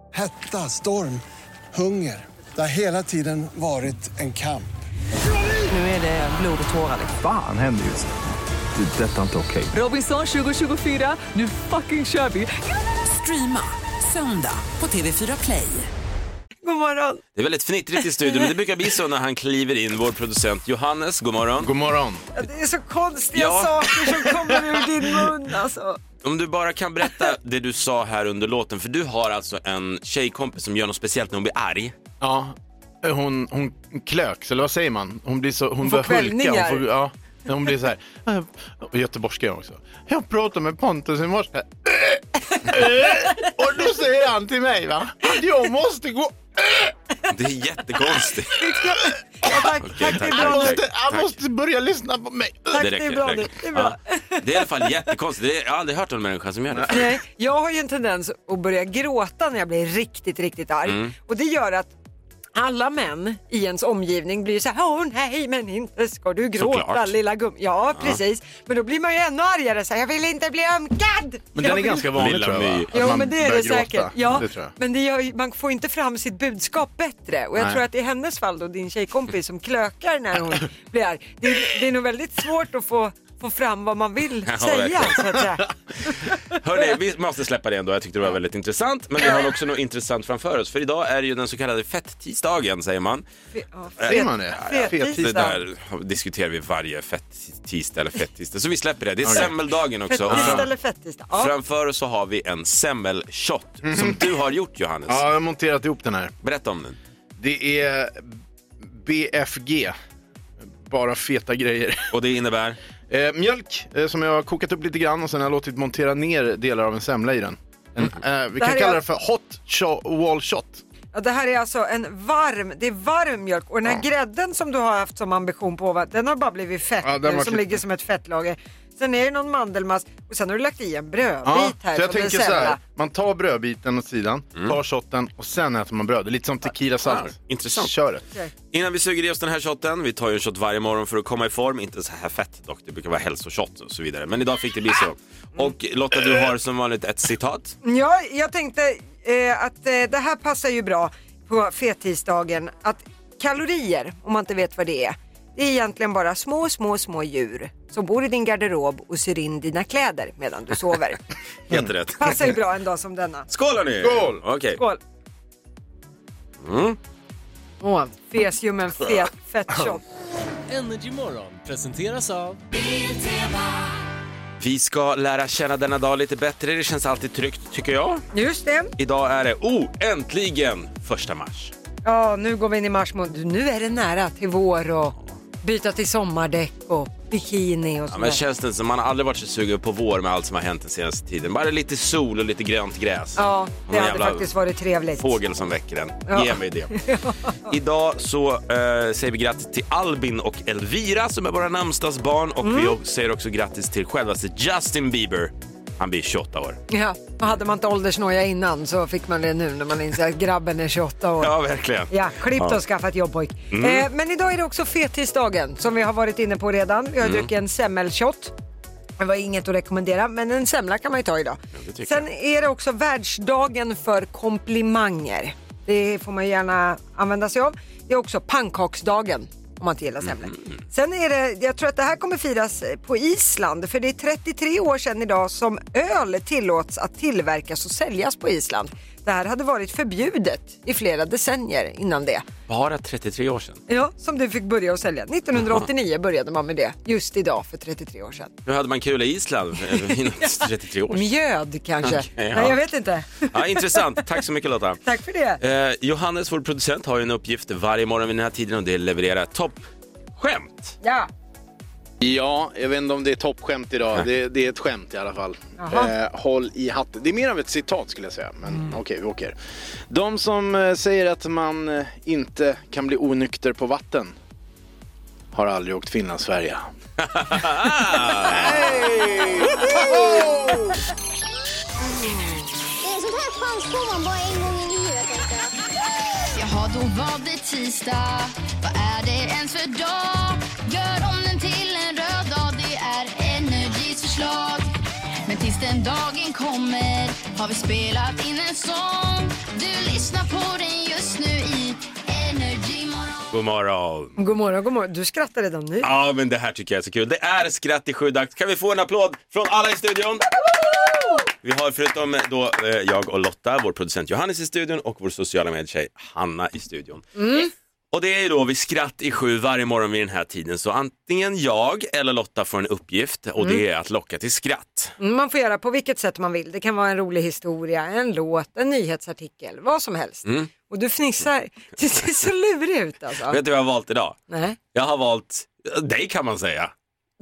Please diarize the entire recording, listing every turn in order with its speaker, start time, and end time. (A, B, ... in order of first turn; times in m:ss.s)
0:00.1-0:01.2 A
0:01.7-0:04.7 A
0:05.7-0:07.2 B
0:07.1-0:08.1 C
0:08.7-0:09.7 C
0:09.7-0:15.9 B
0:16.6-0:17.2 D
0:17.4-0:21.7 E
0:21.6-0:22.2 F
0:22.4-0:26.0 D
0:23.3-0:23.8 E
0:26.2-0:31.9 E
0:32.2-0:46.9 F
0:35.8-0:36.8 D
0:47.3-0:48.5 E
0:48.5-0:50.8 D
0:49.4-0:52.8 F
0:49.8-0:51.3 E
0:52.7-0:54.4 D
0:52.8-0:57.1 E
0:56.7-0:57.0 F
0:56.9-1:01.9 D
1:00.8-1:01.1 E
1:02.6-1:12.1 D
1:06.6-1:07.1 E
1:11.5-1:14.7 F
1:12.1-1:13.1 E
1:12.9-1:26.3 D
1:24.4-1:25.2 E
1:26.5-1:33.2 E
1:33.5-1:35.6 D
1:34.0-1:40.7 E
1:34.0-1:35.6 F
1:39.2-1:39.5 F
1:40.1-1:41.5 D
1:40.2-1:40.7 F
1:41.3-1:45.2 E
1:43.8-1:44.2 F
1:45.1-1:46.3 F
1:46.4-1:47.0 E
1:47.4-1:49.9 F
1:50.8-1:52.1 F
1:52.1-1:52.8 E
1:53.1-2:00.8 F
1:58.6-1:59.0 D
2:01.1-2:12.8 D
2:07.0-2:07.8 F
2:11.4-2:18.2 F
2:17.0-2:17.9 E
2:18.7-2:27.8 E
2:27.8-2:41.2 D
2:41.7-2:42.5 E
2:42.2-2:43.5 D
2:43.5-2:44.8 E
2:44.0-2:44.4 F
2:46.6-2:47.0 E
2:47.8-2:50.0 D
2:54.6-2:58.2 E
2:58.3-2:58.9 D
2:59.0-3:01.7 E
3:02.0-3:08.4 D
3:08.1-3:14.5 E
3:13.4-3:15.3 D
3:15.2-3:16.9 E
3:16.3-3:17.7 D
3:17.7-3:26.8 E
3:22.6-3:23.0 D
3:26.9-3:31.5 D
3:31.4-3:32.8 E
3:32.1-3:38.5 D
3:33.7-3:34.0 E
3:37.2-3:37.5 E
3:39.2-4:02.4 D
3:41.7-3:42.2 E
3:50.4-3:50.7 E
4:02.7-4:03.8 E
4:03.9-4:08.5 D
4:08.6-4:11.3 E
4:09.9-4:10.5 D
4:11.1-4:14.2 D
4:12.0-4:12.8 E
4:13.5-4:15.0 E
4:15.0-4:15.6 D
4:15.6-4:19.8 E
4:20.4-4:20.9 E
4:21.0-4:21.3 D
4:22.2-4:29.6 F
4:25.8-4:26.1 D
4:30.1-4:34.3 F
4:35.5-4:36.9 F
4:37.2-4:38.8 E
4:38.1-4:40.8 F
4:43.0-4:45.7 G
4:46.5-4:54.9 H
4:55.4-5:03.4 H
5:03.5-5:04.4 E
5:04.4-5:06.1 D
5:06.0-5:10.5 E
5:10.6-5:11.4 D
5:11.6-5:17.2 E
5:17.4-5:17.7 D
5:18.1-5:25.2 E
5:25.2-5:33.6 D
5:30.4-5:30.7 E
5:33.5-5:34.4 E
5:34.5-5:34.8 D
5:34.9-5:36.9 E